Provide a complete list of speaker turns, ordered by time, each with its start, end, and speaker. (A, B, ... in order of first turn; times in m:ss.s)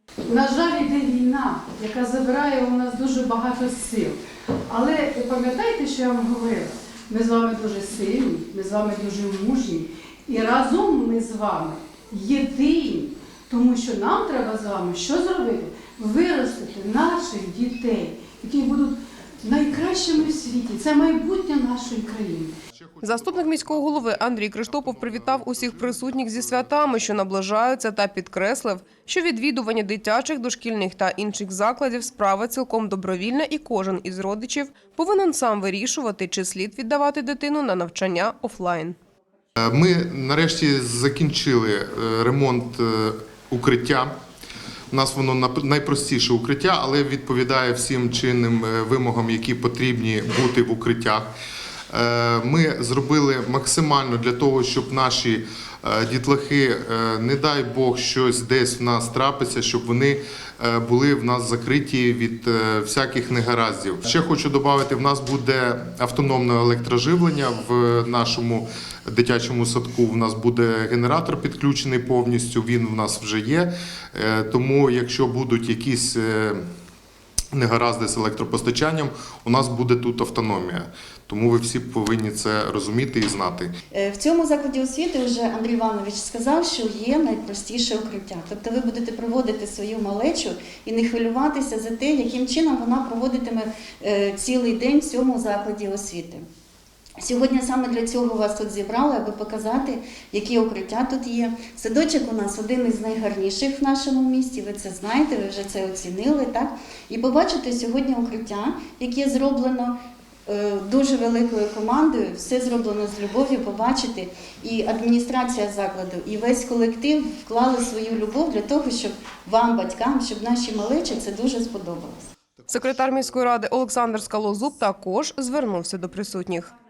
0:00.3-0:04.2 A
0:04.7-0:22.5 A
0:22.7-0:27.2 B
0:23.0-0:39.0 C
0:39.6-0:44.1 B
0:44.9-0:51.3 B
0:51.9-1:16.6 B
1:17.5-1:23.7 B
1:23.9-1:36.4 D
1:37.2-1:49.9 D
1:50.5-2:02.3 D
2:02.7-2:06.7 C